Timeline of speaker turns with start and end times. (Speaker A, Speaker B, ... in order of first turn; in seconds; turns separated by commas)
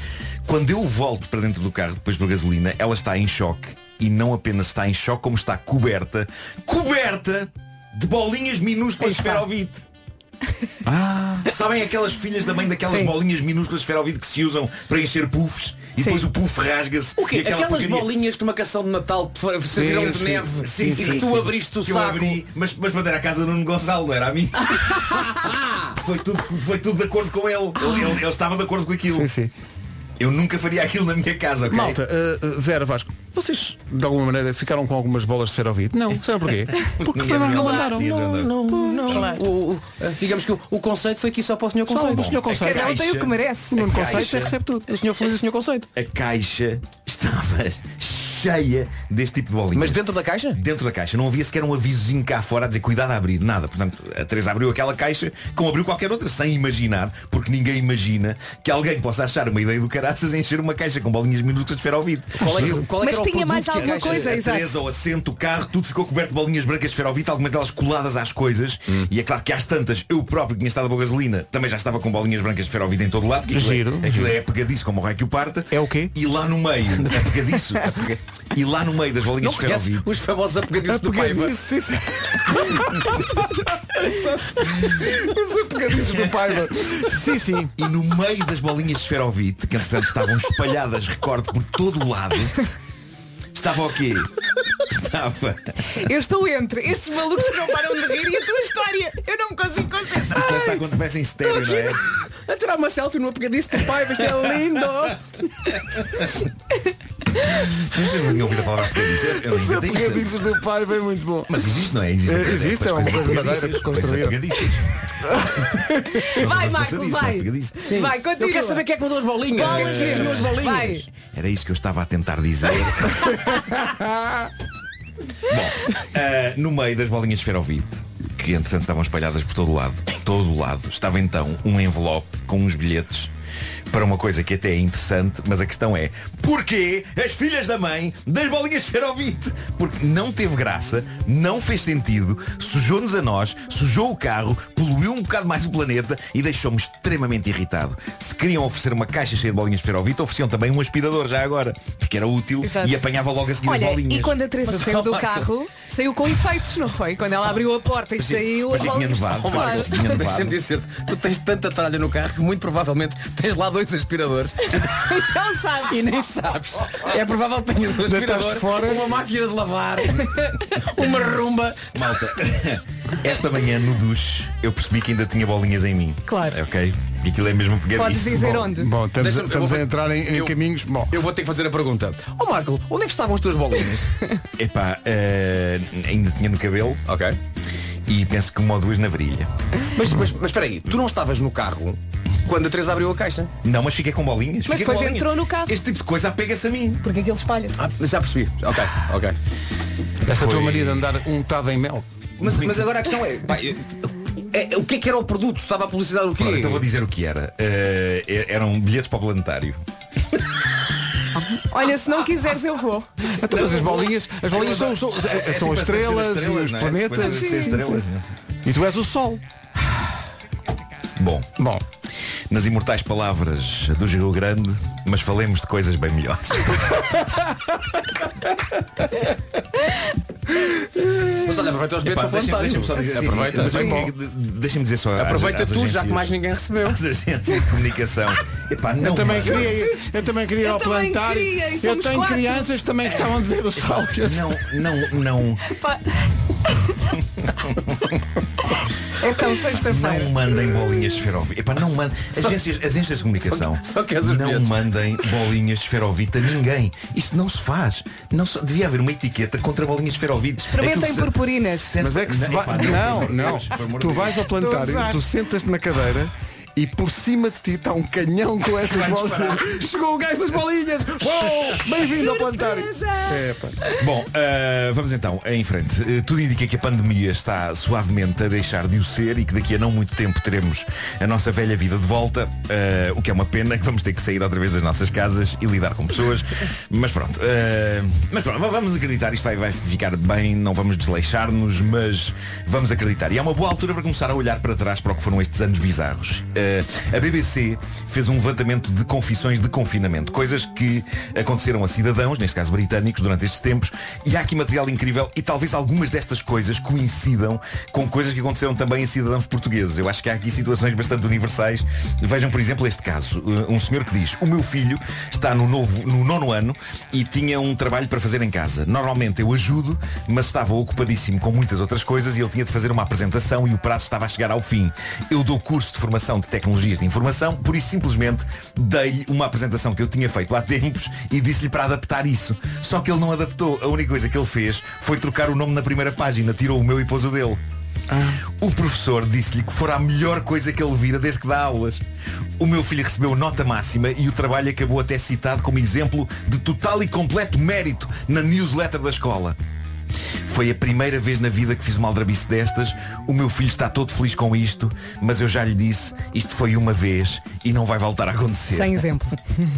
Speaker A: 0.5-9.8, Speaker B: 9.0-9.5, Speaker C: 10.8-11.5, Speaker A: 11.5-18.1, Speaker B: 12.9-13.1, Speaker B: 16.0-16.3, Speaker D: 17.2-22.4, Speaker C: 19.7-21.5, Speaker A: 20.6-29.3, Speaker C: 29.1-29.5, Speaker A: 30.2-32.0, Speaker C: 31.7-38.2, Speaker A: 37.0-39.3, Speaker D: 37.4-42.3, Speaker B: 39.0-39.4, Speaker C: 41.9-43.0, Speaker A: 42.2-44.6, Speaker B: 42.5-43.8, Speaker C: 43.7-44.9, Speaker D: 44.9-45.9, Speaker A: 46.0-62.6, Speaker D: 49.7-50.6, Speaker D: 62.4-64.3, Speaker C: 62.4-62.9, Speaker B: 63.0-64.7, Speaker A: 63.9-80.1, Speaker C: 73.5-74.4, Speaker C: 75.7-76.2, Speaker D: 79.4-81.6, Speaker C: 80.8-83.3, Speaker C: 83.9-87.8, Speaker A: 86.0-86.4, Speaker A: 87.8-92.7, Speaker A: 93.5-95.8, Speaker B: 95.9-100.8, Speaker A: 100.3-102.0, Speaker B: 101.5-102.0, Speaker D: 102.5-104.9, Speaker B: 104.3-105.1, Speaker A: 107.7-110.4, Speaker C: 109.2-111.6, Speaker A: 111.5-114.9, Speaker C: 112.2-116.4, Speaker B: 116.1-118.8, Speaker A: 116.3-117.9, Speaker D: 117.8-121.1, Speaker B: 119.5-121.1, Speaker A: 119.7-120.5, Speaker A: 121.1-123.7, Speaker A: 125.5-133.3, Speaker A: 133.9-154.4, Speaker B: 152.6-153.0, Speaker B: 153.6-160.0, Speaker D: 154.7-155.5, Speaker A: 158.2-160.6, Speaker D: 159.3-165.0, Speaker B: 164.8-166.0, Speaker D: 165.9-172.0, Speaker C: 168.0-169.1, Speaker A: 171.9-178.6, Speaker B: 176.3-176.6, Speaker B: 177.9-178.9, Speaker C: 178.3-181.2, Speaker D: 179.2-180.6, Speaker D: 181.1-184.1, Speaker A: 184.6-187.0, Speaker D: 187.1-187.4, Speaker A: 188.1-189.5, Speaker D: 189.9-193.5, Speaker A: 193.6-197.0, Speaker B: 194.7-195.8, Speaker B: 197.0-197.8, Speaker D: 197.8-199.4, Speaker C: 200.2-202.1, Speaker A: 200.3-201.0, Speaker D: 202.4-206.9, Speaker A: 202.4-202.8, Speaker A: 206.4-209.8, Speaker B: 211.7-213.1, Speaker C: 213.3-218.1, Speaker A: 213.4-218.3, Speaker B: 217.2-217.8, Speaker C: 218.7-219.4, Speaker A: 221.2-221.5, Speaker C: 221.6-221.8, Speaker A: 222.5-227.1, Speaker D: 231.4-234.1, Speaker A: 232.0-239.7, Speaker C: 233.6-234.1, Speaker B: 233.6-234.0, Speaker D: 235.2-237.0, Speaker C: 239.0-244.6, Speaker B: 239.4-240.1, Speaker B: 240.6-242.7, Speaker A: 244.2-245.7, Speaker B: 245.7-247.1, Speaker A: 247.4-248.1, Speaker B: 249.2-250.3, Speaker A: 249.8-264.4, Speaker D: 252.3-252.6, Speaker D: 253.4-255.4, Speaker B: 260.7-261.9, Speaker C: 262.0-273.8, Speaker B: 264.4-265.2, Speaker A: 268.9-269.8, Speaker B: 271.9-274.1, Speaker A: 274.0-337.6, Speaker C: 338.1-338.4, Speaker A: 338.6-342.0, Speaker A: 342.6-349.6, Speaker A: 350.5-359.1, Speaker B: 358.7-359.7